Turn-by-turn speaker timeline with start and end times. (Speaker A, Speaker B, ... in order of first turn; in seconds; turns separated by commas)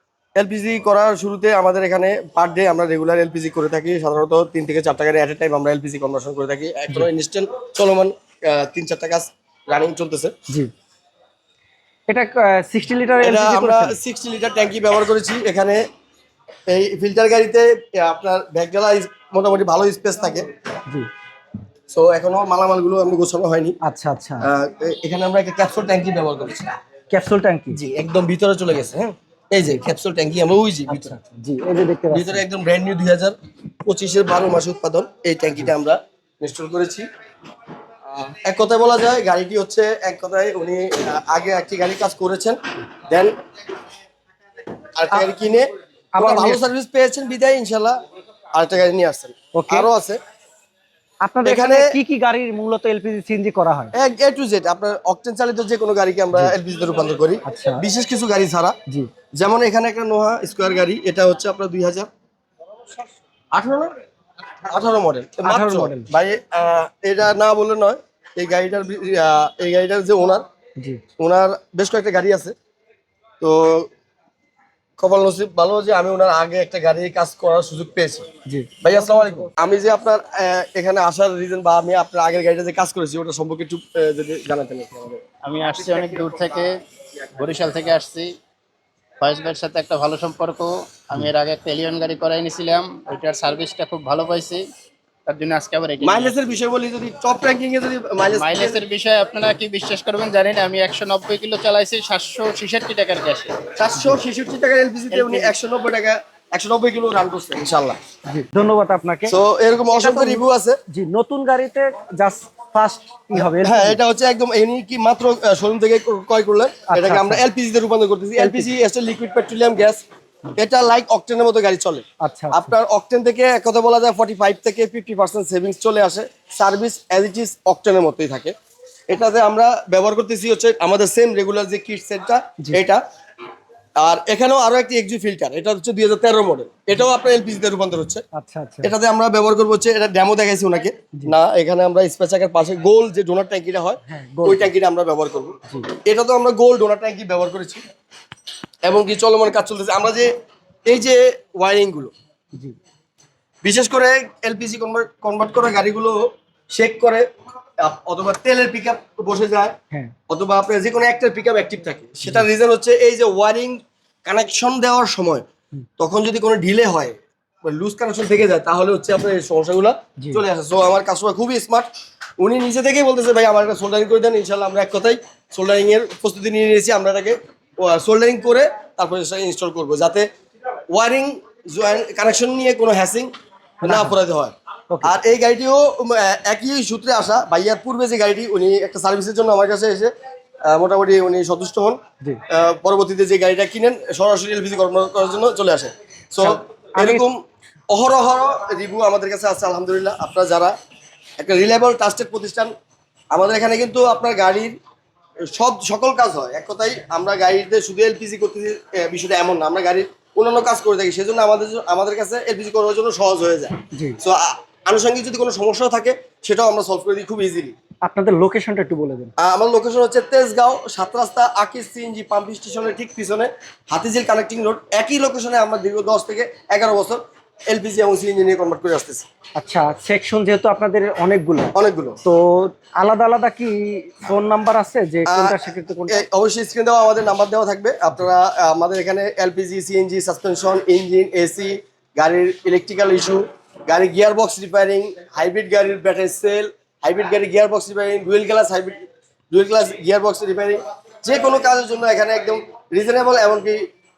Speaker A: 0.3-10.3, Speaker B: 12.1-13.9, Speaker A: 13.2-15.8, Speaker A: 16.7-20.4, Speaker A: 21.9-23.8, Speaker B: 23.8-24.5, Speaker A: 24.4-26.7, Speaker B: 27.1-27.8, Speaker A: 27.7-31.1, Speaker B: 30.9-32.4, Speaker A: 32.1-37.0, Speaker A: 38.1-43.3, Speaker A: 44.9-48.0, Speaker B: 46.1-46.7, Speaker A: 48.5-50.2, Speaker B: 49.5-49.9, Speaker B: 51.2-53.9, Speaker A: 51.4-51.8, Speaker A: 54.0-58.8, Speaker B: 57.5-57.9, Speaker A: 59.3-62.1, Speaker A: 63.5-63.9, Speaker A: 64.7-70.4, Speaker B: 65.4-66.1, Speaker A: 71.2-72.5, Speaker A: 73.4-73.9, Speaker A: 75.0-78.3, Speaker B: 78.5-79.5, Speaker A: 78.8-85.2, Speaker C: 85.4-86.7, Speaker C: 87.3-88.3, Speaker C: 89.2-94.6, Speaker C: 95.2-96.3, Speaker A: 96.0-98.8, Speaker C: 98.3-103.5, Speaker A: 103.8-108.0, Speaker C: 105.1-105.5, Speaker B: 108.3-109.3, Speaker A: 109.3-110.8, Speaker B: 110.0-114.0, Speaker A: 113.3-120.0, Speaker B: 116.9-117.4, Speaker B: 118.4-118.7, Speaker A: 120.5-128.5, Speaker B: 122.2-122.7, Speaker A: 129.1-133.0, Speaker A: 134.0-138.2, Speaker B: 138.3-138.9, Speaker A: 138.8-147.8, Speaker B: 144.1-144.7, Speaker A: 148.8-150.3, Speaker A: 150.8-152.1, Speaker A: 153.6-157.2, Speaker A: 157.8-159.8, Speaker A: 160.3-165.4, Speaker A: 166.0-180.3, Speaker A: 180.9-183.3, Speaker B: 183.8-184.2, Speaker A: 183.8-190.1, Speaker B: 184.9-185.2, Speaker A: 190.7-197.3, Speaker B: 196.4-197.3, Speaker A: 197.9-200.7, Speaker A: 201.4-202.7, Speaker A: 203.3-204.8, Speaker A: 205.5-217.7, Speaker B: 218.1-219.3, Speaker A: 219.4-229.2, Speaker B: 229.6-231.7, Speaker A: 231.8-232.2, Speaker B: 232.2-236.2, Speaker A: 235.3-235.6, Speaker A: 236.1-249.0, Speaker A: 249.5-253.9